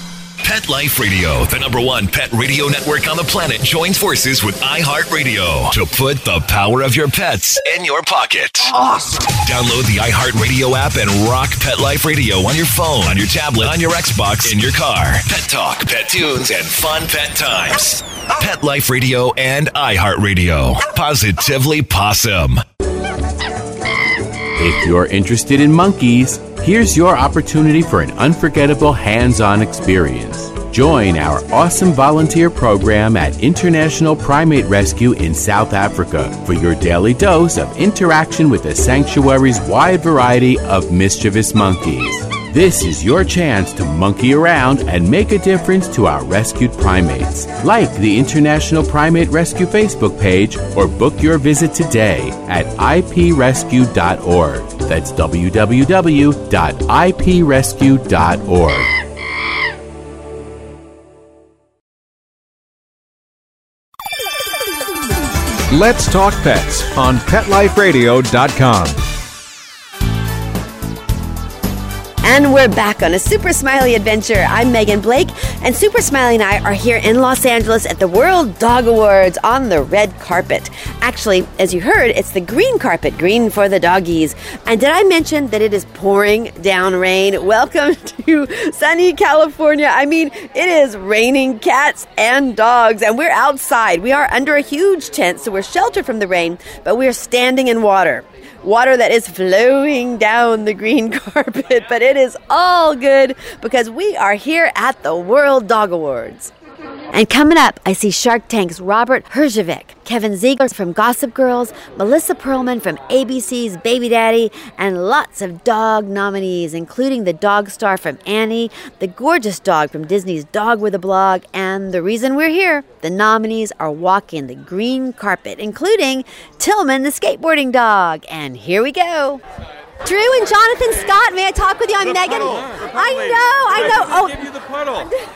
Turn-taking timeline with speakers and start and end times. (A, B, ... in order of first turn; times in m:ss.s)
0:00.4-0:08.7 A
0:09.3-0:22.6 A
0:24.6-0:58.9 B
1:05.7-1:09.0 C
1:12.2-1:46.5 D
1:47.1-2:09.4 D
2:10.0-2:14.5 E
2:12.0-2:15.1 F